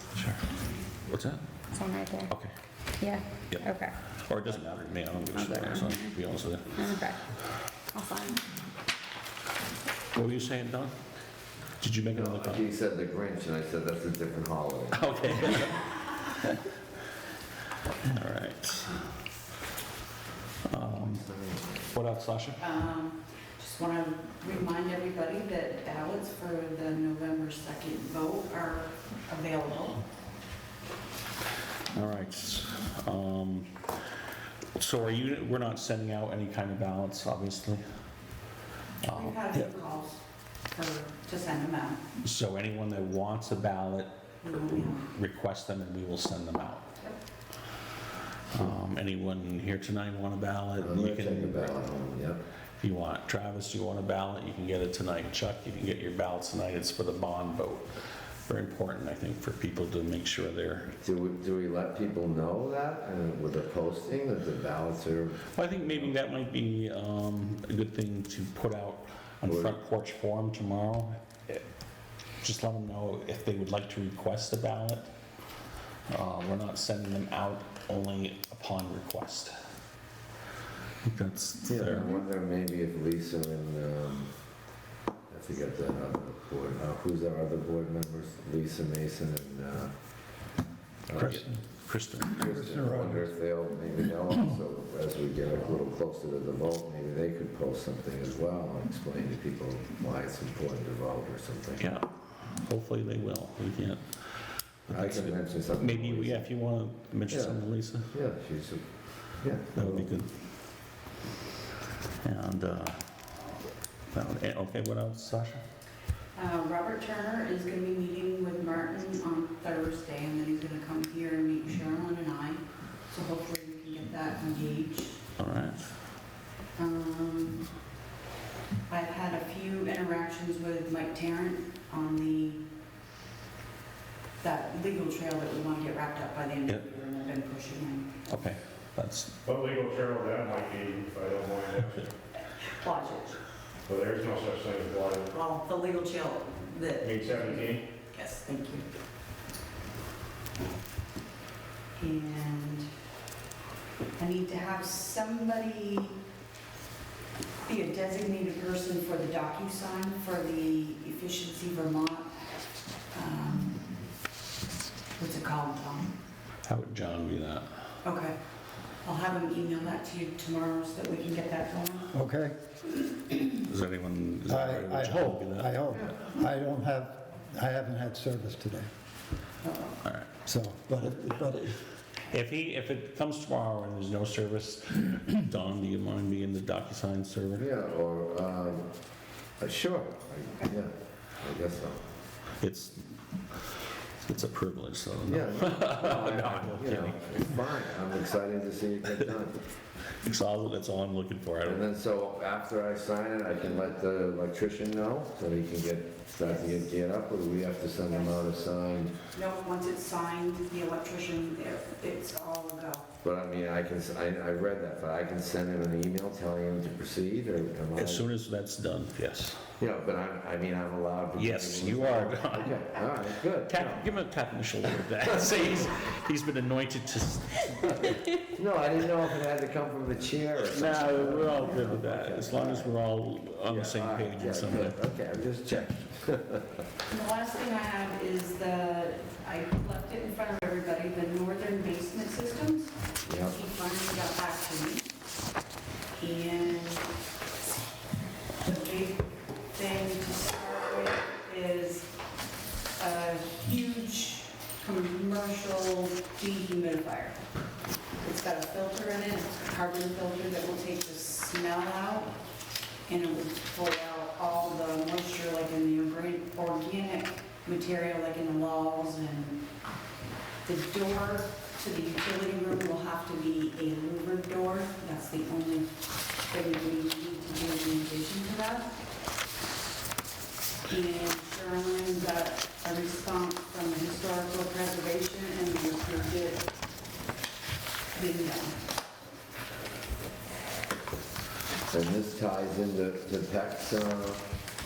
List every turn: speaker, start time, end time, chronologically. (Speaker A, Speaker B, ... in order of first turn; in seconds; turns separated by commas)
Speaker A: 0.1-0.4, Speaker A: 1.1-1.4, Speaker B: 1.7-2.3, Speaker B: 3.0-3.9, Speaker A: 3.5-6.7, Speaker B: 5.3-6.1, Speaker B: 6.8-7.2, Speaker B: 7.9-8.4, Speaker A: 10.1-10.9, Speaker A: 11.8-12.7, Speaker C: 12.1-15.0, Speaker A: 14.9-16.5, Speaker A: 18.1-19.1, Speaker A: 20.6-21.2, Speaker C: 20.9-21.8, Speaker A: 21.9-22.6, Speaker D: 22.6-30.0, Speaker A: 31.9-33.7, Speaker A: 34.8-37.8, Speaker A: 39.0-39.7, Speaker D: 39.1-40.2, Speaker D: 40.7-42.0, Speaker A: 42.2-44.1, Speaker D: 44.4-45.0, Speaker A: 44.9-46.9, Speaker A: 48.5-51.7, Speaker C: 50.8-52.4, Speaker A: 52.8-57.9, Speaker A: 58.4-60.9, Speaker C: 61.0-66.1, Speaker A: 65.5-71.6, Speaker C: 69.5-69.8, Speaker A: 72.4-75.0, Speaker A: 76.1-79.5, Speaker A: 81.0-82.1, Speaker C: 81.7-84.3, Speaker C: 85.3-90.1, Speaker C: 91.1-91.5, Speaker A: 91.1-92.4, Speaker C: 92.3-101.9, Speaker E: 92.3-93.3, Speaker A: 101.8-104.0, Speaker A: 104.9-108.1, Speaker C: 104.9-106.4, Speaker C: 107.3-107.6, Speaker C: 108.1-108.8, Speaker C: 109.3-110.1, Speaker A: 109.7-110.3, Speaker A: 112.2-113.0, Speaker A: 114.1-115.6, Speaker D: 116.3-125.2, Speaker A: 125.4-125.8, Speaker D: 126.8-127.7, Speaker D: 128.9-132.6, Speaker D: 134.4-138.1, Speaker A: 138.3-139.3, Speaker F: 139.4-142.1, Speaker D: 142.6-143.4, Speaker F: 143.9-145.3, Speaker D: 145.3-148.9, Speaker F: 147.0-147.9, Speaker D: 152.0-152.9, Speaker D: 154.2-156.2, Speaker D: 157.6-162.3, Speaker D: 163.1-163.8, Speaker D: 165.2-166.1, Speaker A: 166.6-167.7, Speaker D: 168.0-168.4, Speaker D: 169.0-172.1, Speaker E: 172.1-172.5, Speaker A: 173.6-175.7, Speaker E: 174.5-178.9, Speaker D: 179.6-179.9, Speaker A: 180.0-180.3, Speaker E: 180.4-181.8, Speaker A: 182.3-187.7, Speaker C: 187.6-188.8, Speaker C: 189.6-192.0, Speaker A: 192.6-193.0, Speaker A: 194.2-197.2, Speaker C: 195.2-199.6, Speaker A: 200.2-201.8, Speaker C: 201.6-209.2, Speaker D: 206.4-206.8, Speaker D: 208.1-208.3, Speaker D: 209.3-213.0, Speaker C: 213.2-218.2, Speaker A: 217.9-219.6, Speaker C: 219.8-224.0, Speaker A: 221.3-222.9, Speaker A: 223.7-228.3, Speaker C: 228.6-232.9, Speaker A: 230.6-235.0, Speaker C: 233.7-236.7, Speaker D: 237.1-245.1, Speaker C: 243.2-243.6, Speaker D: 246.2-247.1, Speaker D: 248.6-252.1, Speaker D: 253.0-257.4, Speaker D: 258.2-262.3, Speaker D: 263.1-269.6, Speaker D: 270.6-275.9, Speaker D: 276.5-279.0, Speaker D: 280.9-286.7, Speaker D: 288.1-288.8, Speaker C: 291.9-294.4